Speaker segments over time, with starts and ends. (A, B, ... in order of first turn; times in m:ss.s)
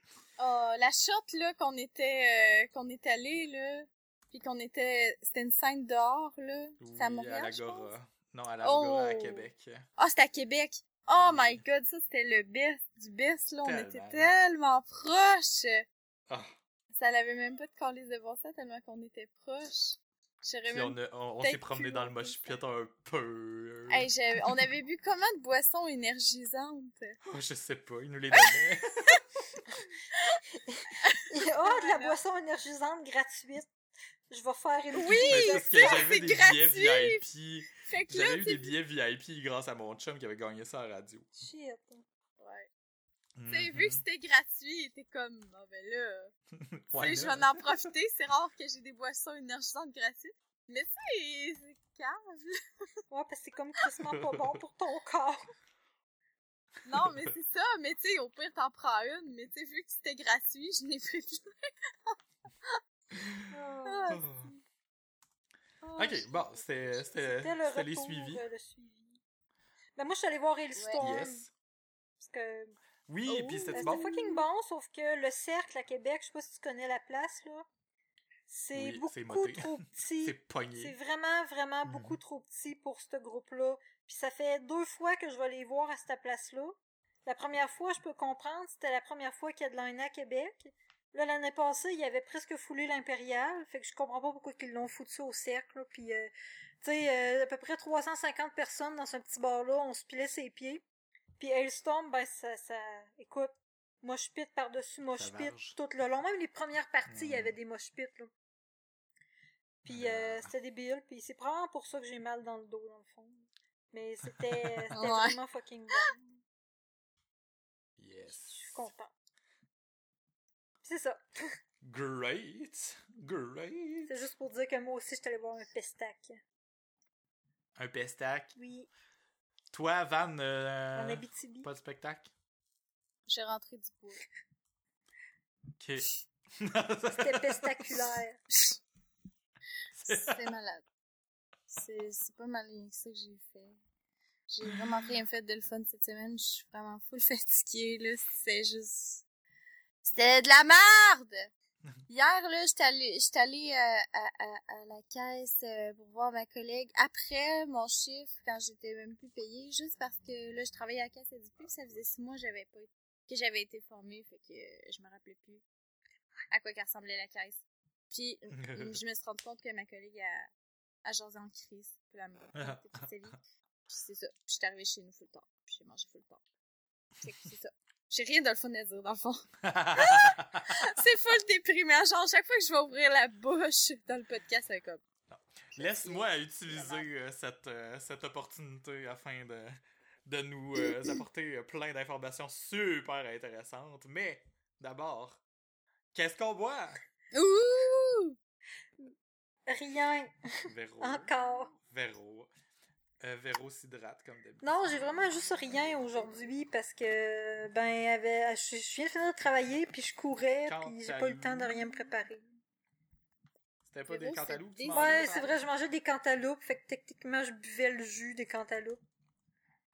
0:00.4-0:07.9 A
0:06.8-0:09.9 B
0:08.6-0:09.4 A
0:10.0-0:15.9 A
0:11.2-0:11.6 B
0:13.6-0:14.3 B
0:16.9-0:22.6 A
0:20.7-0:24.1 B
0:23.9-0:27.2 A
0:27.2-0:29.2 B
0:28.3-0:29.2 A
0:30.1-0:30.4 A
0:30.6-0:33.7 C
0:31.0-0:32.2 A
0:34.3-0:36.0 C
0:34.9-0:37.2 A
0:35.3-0:41.3 B
0:37.8-0:38.7 A
0:41.4-0:42.0 C
0:42.4-0:42.7 A
0:43.4-0:44.0 B
0:43.5-0:46.3 A
0:46.6-0:47.5 B
0:47.0-0:52.6 A
0:53.1-0:55.5 C
0:54.1-0:54.6 B
0:56.8-1:02.8 A
1:03.1-1:03.5 B
1:03.5-1:04.1 C
1:03.8-1:04.3 A
1:04.1-1:04.5 B
1:05.8-1:07.1 A
1:06.0-1:08.4 B
1:07.2-1:09.2 C
1:10.0-1:11.4 C
1:10.8-1:11.1 A
1:11.0-1:11.5 B
1:12.2-1:12.7 C
1:13.1-1:14.1 B
1:13.3-1:14.4 A
1:13.8-1:17.6 C
1:18.5-1:36.3 C
1:18.8-1:21.0 B
1:21.9-1:22.2 B
1:36.8-1:40.8 C
1:41.4-1:48.3 C
1:45.2-1:45.8 B
1:47.1-1:47.5 B
1:49.8-1:56.4 C
1:49.9-1:50.5 B
1:54.5-1:55.1 B
1:55.0-1:55.4 A
1:58.0-1:58.9 B
1:58.3-1:59.1 C
2:00.8-2:01.2 C
2:01.8-2:04.2 B
2:04.1-2:06.4 C
2:07.8-2:08.6 B
2:08.6-2:08.9 C
2:09.7-2:12.3 B
2:11.0-2:11.7 C
2:13.3-2:14.2 A
2:15.8-2:18.0 B
2:17.1-2:18.4 C
2:20.0-2:20.4 B
2:20.1-2:20.8 A
2:21.7-2:23.8 A
2:24.5-2:29.2 A
2:30.0-2:31.5 A
2:32.1-2:45.6 A
2:46.5-2:50.5 A
2:48.6-2:49.0 B
2:51.0-2:56.4 A
2:52.6-2:53.1 B
2:57.2-3:05.0 A
2:59.6-3:01.0 B
3:05.3-3:15.4 B
3:05.8-3:07.1 A
3:10.8-3:11.2 A
3:16.1-3:17.0 B
3:17.3-3:18.4 A
3:19.7-3:20.3 C
3:20.7-3:22.5 B
3:21.0-3:21.7 C
3:23.2-3:24.8 B
3:24.6-3:32.4 C
3:30.7-3:31.8 B
3:33.9-3:35.5 B
3:34.1-3:35.5 A
3:34.9-3:39.0 C